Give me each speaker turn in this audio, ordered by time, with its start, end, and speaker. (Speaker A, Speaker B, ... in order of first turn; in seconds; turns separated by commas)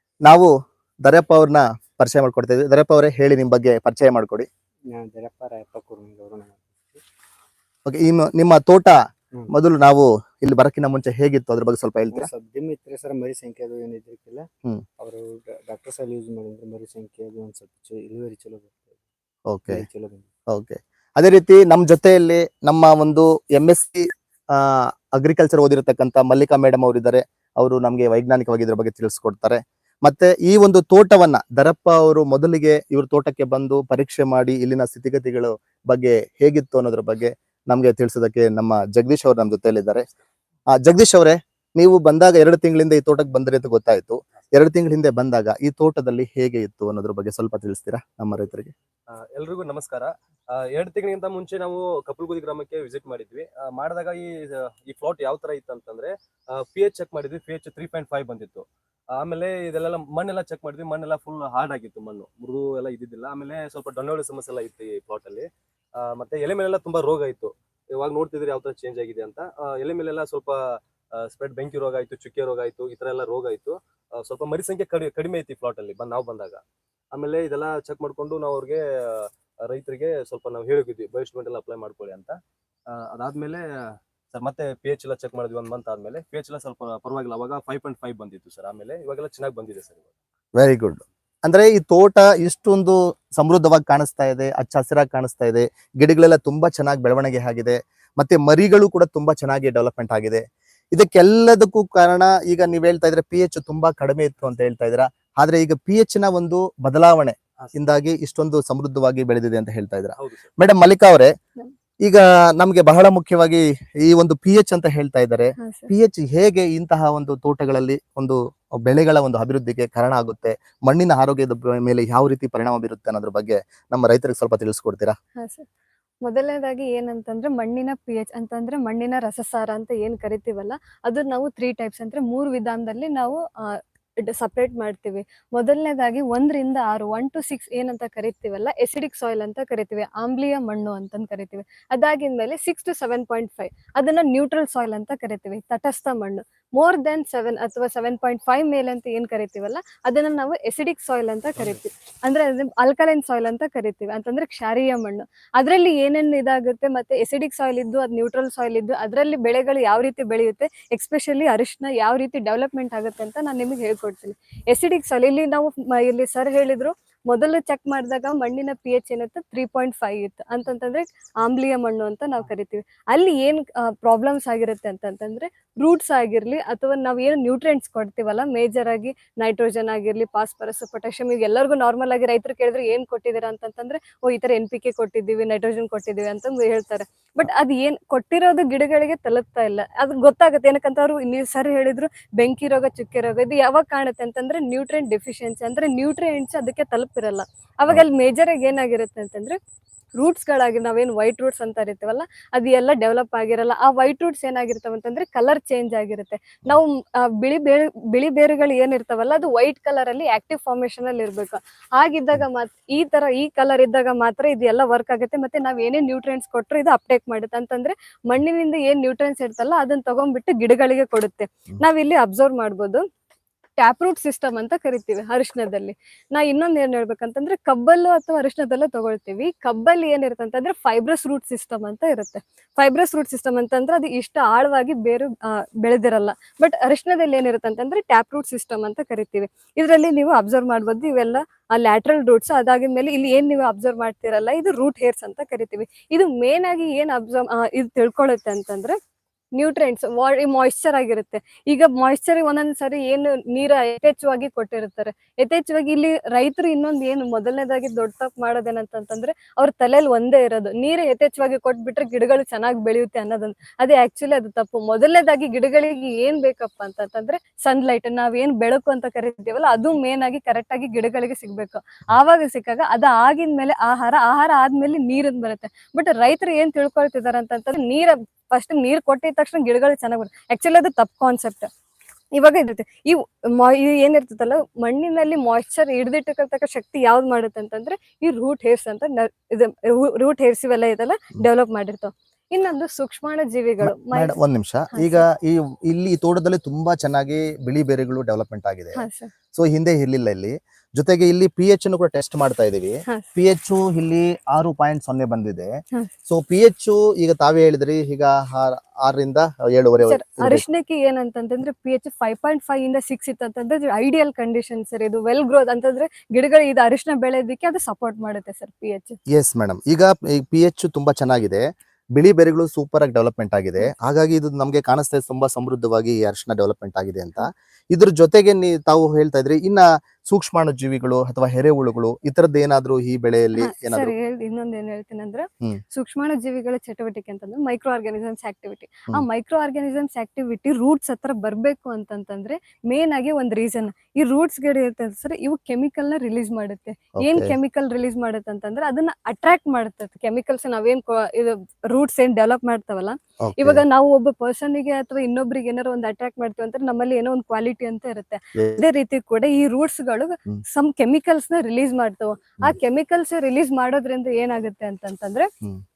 Speaker A: 1.1-4.5, Speaker B: 4.9-7.0, Speaker A: 7.9-8.9, Speaker A: 9.5-12.3, Speaker B: 12.1-14.5, Speaker B: 15.0-19.0, Speaker A: 19.5-19.8, Speaker B: 19.7-20.3, Speaker A: 20.5-40.0, Speaker A: 40.7-48.7, Speaker C: 49.1-76.6, Speaker C: 77.1-90.1, Speaker A: 90.6-111.3, Speaker C: 110.2-110.5, Speaker A: 112.0-125.2, Speaker D: 115.6-115.9, Speaker D: 125.4-125.7, Speaker D: 126.2-199.6, Speaker D: 200.2-223.1, Speaker D: 223.8-249.0, Speaker D: 249.6-281.7, Speaker D: 282.4-294.4, Speaker A: 293.8-305.7, Speaker D: 294.9-295.2, Speaker D: 299.0-299.3, Speaker A: 306.3-310.6, Speaker D: 310.0-319.2, Speaker A: 319.3-321.6, Speaker A: 322.1-334.1, Speaker D: 333.6-365.5, Speaker A: 347.2-347.5, Speaker A: 353.4-353.8